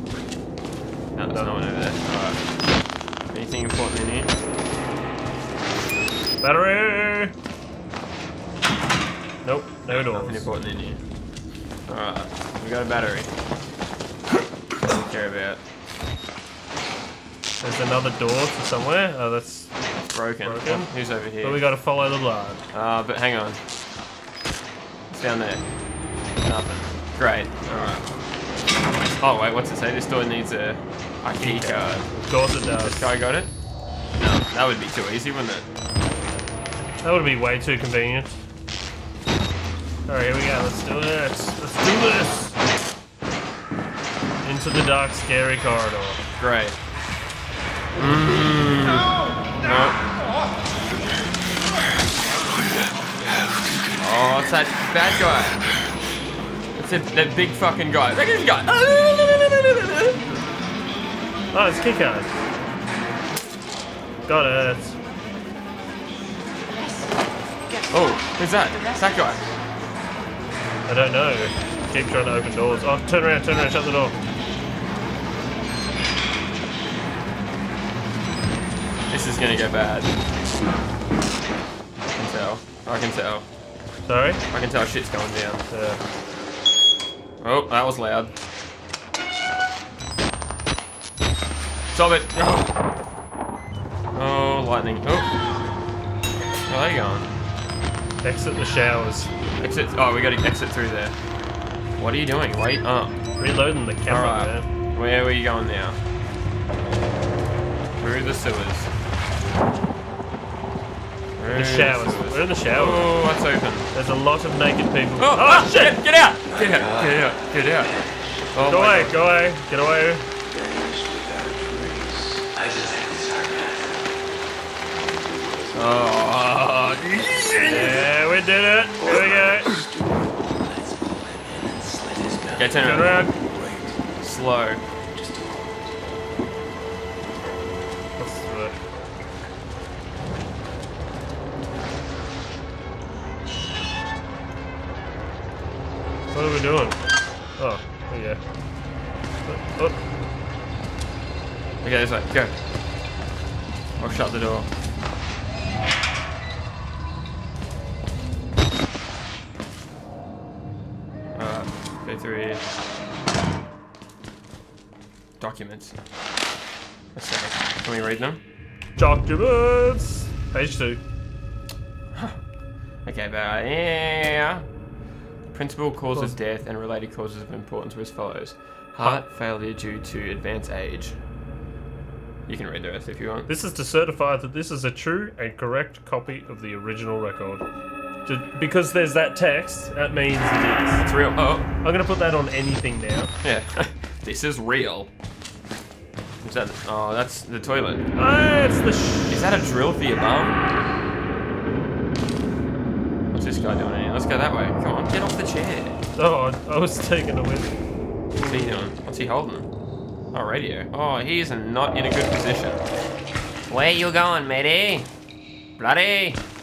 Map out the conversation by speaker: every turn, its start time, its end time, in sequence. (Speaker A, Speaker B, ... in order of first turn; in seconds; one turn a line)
Speaker A: 1.1-2.4
Speaker A: 3.3-4.3
Speaker B: 6.4-7.3
Speaker B: 9.4-10.4
Speaker A: 9.9-11.0
Speaker A: 11.9-13.3
Speaker A: 14.8-15.6
Speaker B: 17.6-19.7
Speaker A: 20.1-21.6
Speaker B: 20.4-22.6
Speaker A: 22.7-23.6
Speaker A: 25.1-25.6
Speaker A: 26.4-28.1
Speaker A: 29.1-32.1
Speaker B: 31.4-33.1
Speaker A: 32.7-33.5
Speaker A: 34.2-35.6
Speaker B: 37.0-38.4
Speaker B: 40.1-42.5
Speaker B: 44.4-46.2
Speaker A: 46.4-46.8
Speaker A: 48.0-50.0
Speaker A: 54.0-55.6
Speaker A: 56.8-60.2
Speaker B: 61.5-62.3
Speaker B: 64.2-64.9
Speaker A: 67.9-69.4
Speaker B: 70.9-74.2
Speaker A: 79.1-80.1
Speaker A: 82.1-83.4
Speaker B: 84.1-84.4
Speaker A: 84.5-85.6
Speaker B: 85.7-86.0
Speaker A: 87.4-88.3
Speaker A: 91.9-92.7
Speaker A: 94.1-95.3
Speaker A: 96.7-97.3
Speaker B: 98.2-99.3
Speaker A: 99.6-101.1
Speaker A: 102.0-103.2
Speaker B: 103.4-104.6
Speaker A: 104.1-106.0
Speaker A: 108.0-108.9
Speaker A: 111.4-113.8
Speaker B: 111.5-113.1
Speaker B: 113.9-116.0
Speaker A: 115.2-117.9
Speaker C: 116.5-118.5
Speaker A: 118.5-119.1
Speaker B: 118.7-120.3
Speaker C: 120.5-126.1
Speaker A: 125.7-128.0
Speaker B: 127.7-129.7
Speaker C: 129.0-134.0
Speaker A: 132.6-133.2
Speaker B: 132.8-133.3
Speaker A: 134.2-134.8
Speaker C: 135.1-136.4
Speaker B: 138.2-138.7
Speaker B: 146.3-147.0
Speaker B: 147.6-148.4
Speaker B: 149.4-150.0
Speaker A: 151.8-152.5
Speaker A: 154.0-154.7
Speaker A: 161.3-162.6
Speaker A: 165.4-165.9
Speaker A: 167.1-168.4
Speaker B: 169.0-171.0
Speaker A: 172.1-172.4
Speaker A: 173.0-174.6
Speaker A: 175.5-181.2
Speaker A: 182.5-183.5
Speaker B: 183.5-187.6
Speaker B: 188.2-191.0
Speaker A: 191.0-191.7
Speaker B: 191.8-193.3
Speaker A: 193.4-195.1
Speaker A: 196.4-198.0
Speaker B: 198.1-199.4
Speaker A: 199.3-200.6
Speaker A: 203.3-206.0
Speaker B: 206.2-207.7
Speaker B: 208.4-208.8
Speaker A: 208.4-209.7
Speaker A: 210.3-212.8
Speaker A: 213.7-215.1
Speaker A: 215.8-216.4